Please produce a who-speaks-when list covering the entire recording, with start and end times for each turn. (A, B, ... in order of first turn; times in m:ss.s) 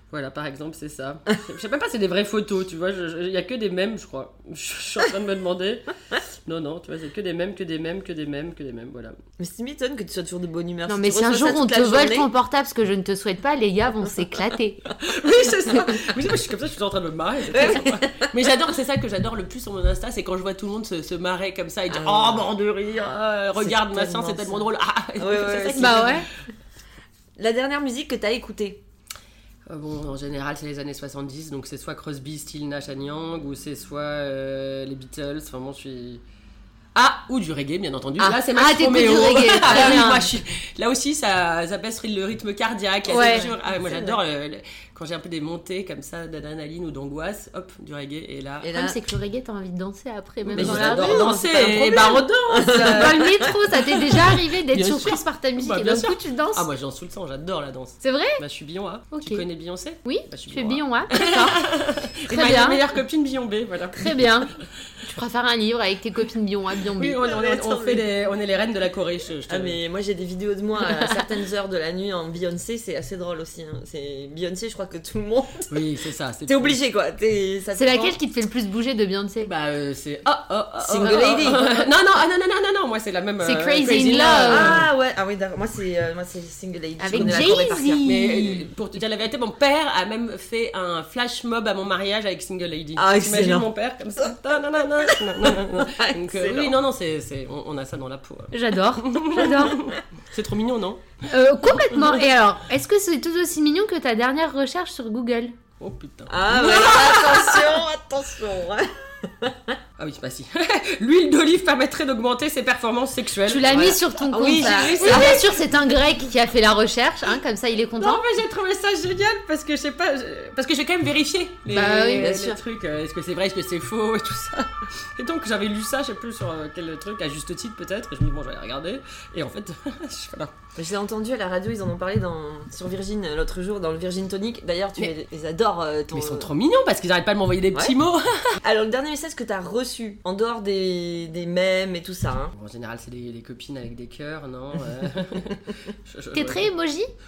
0:00.1-0:05.8 A
0:06.4-0:09.2 A
0:09.4-0:12.3 B
0:10.9-0:14.8 C
0:15.0-0:26.2 A
0:17.5-0:18.3 B
0:21.9-0:22.4 B
0:23.5-0:24.6 B
0:25.2-0:26.3 B
0:25.8-0:26.3 C
0:27.4-0:28.8 B
0:29.7-0:36.2 A
0:36.9-0:48.7 A
0:38.2-0:40.3 C
0:43.1-0:44.2 B
0:43.1-0:43.5 C
0:48.6-0:49.0 B
0:48.7-0:56.7 C
0:50.5-0:53.2 A
0:50.5-0:51.4 B
0:52.5-0:53.5 B
0:54.2-1:04.3 A
0:58.0-0:58.4 C
0:59.1-0:59.4 C
1:00.0-1:01.6 C
1:02.3-1:02.8 C
1:03.9-1:07.2 C
1:07.0-1:09.8 A
1:07.2-1:08.0 B
1:09.5-1:15.8 B
1:10.8-1:11.2 C
1:15.7-1:16.8 A
1:16.5-1:18.2 B
1:17.7-1:19.5 C
1:19.4-1:24.9 A
1:20.8-1:21.9 B
1:23.4-1:24.8 C
1:24.5-1:28.0 B
1:27.0-1:28.7 C
1:27.1-1:41.0 A
1:33.0-1:33.7 B
1:35.1-1:36.7 B
1:38.5-1:39.8 C
1:41.3-1:45.5 C
1:41.8-1:42.1 A
1:45.8-1:47.8 A
1:46.3-1:49.8 B
1:50.0-1:53.9 A
1:53.4-1:58.2 C
1:53.7-1:55.4 B
1:54.6-1:55.5 A
1:57.9-2:10.6 A
2:01.7-2:02.6 C
2:10.8-2:16.5 B
2:16.1-2:18.6 A
2:18.6-2:22.5 B
2:22.5-2:26.7 A
2:26.3-2:27.1 C